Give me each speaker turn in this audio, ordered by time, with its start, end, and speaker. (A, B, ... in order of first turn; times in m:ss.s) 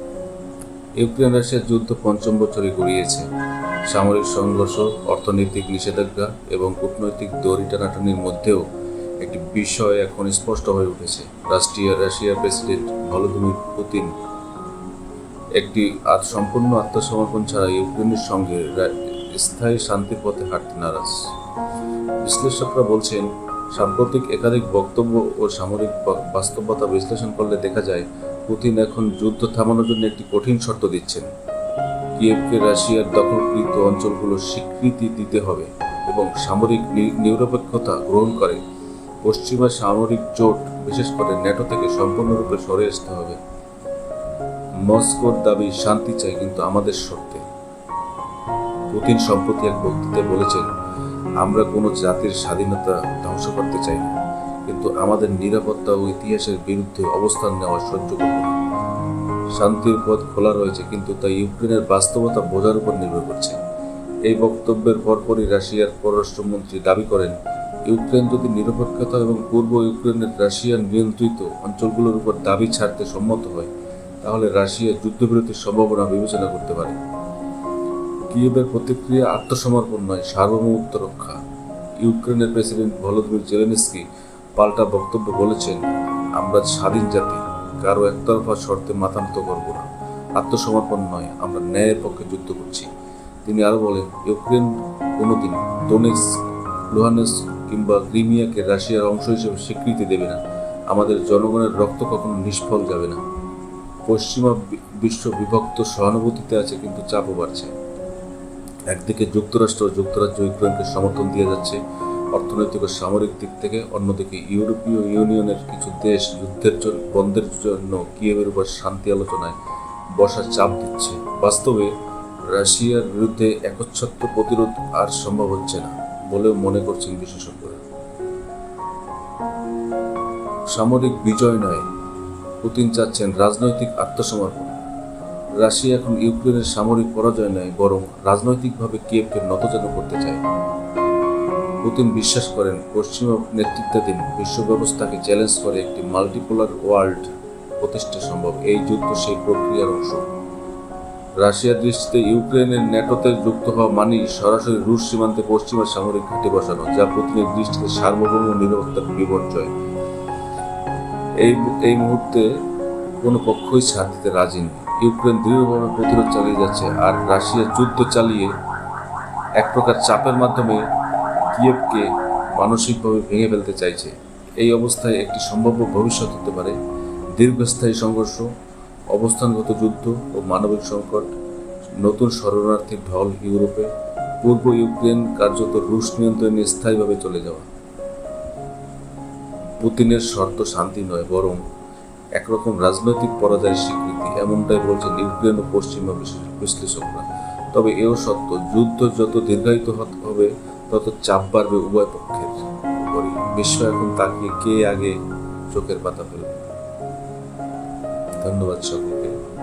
0:01.0-0:03.2 A
0:03.9-0:08.6 A
0:09.2-0:14.1 A
0:15.6-0:21.2 A
0:22.2-0:31.3 A
0:32.2-0:38.6 A
0:39.2-0:43.4 A
0:44.8-0:47.4 A
0:48.9-0:50.7 A
0:51.4-0:54.1 A
0:54.7-0:58.6 A
0:59.6-1:03.6 A
1:04.3-1:07.4 A
1:07.9-1:13.7 A
1:14.2-1:17.0 A
1:18.3-1:21.4 A
1:22.0-1:24.0 A
1:24.6-1:25.8 A
1:26.4-1:29.9 A
1:30.4-1:32.9 A
1:33.4-1:36.3 A
1:36.9-1:40.4 A
1:40.9-1:43.2 A
1:44.1-1:47.7 A
1:48.9-1:51.8 A
1:52.3-1:59.6 A
2:00.2-2:01.9 A
2:02.5-2:07.8 A
2:10.7-2:11.8 A
2:12.6-2:14.7 A
2:15.6-2:20.4 A
2:21.8-2:27.3 A
2:27.8-2:30.2 A
2:31.4-2:39.7 A
2:41.4-2:42.5 A
2:43.2-2:48.5 A
2:49.6-2:50.8 A
2:51.5-2:56.8 A
2:57.4-2:58.5 A
2:59.1-3:01.3 A
3:02.0-3:03.9 A
3:04.4-3:07.7 A
3:09.8-3:11.6 A
3:12.4-3:25.1 A
3:25.7-3:26.6 A
3:28.4-3:29.3 A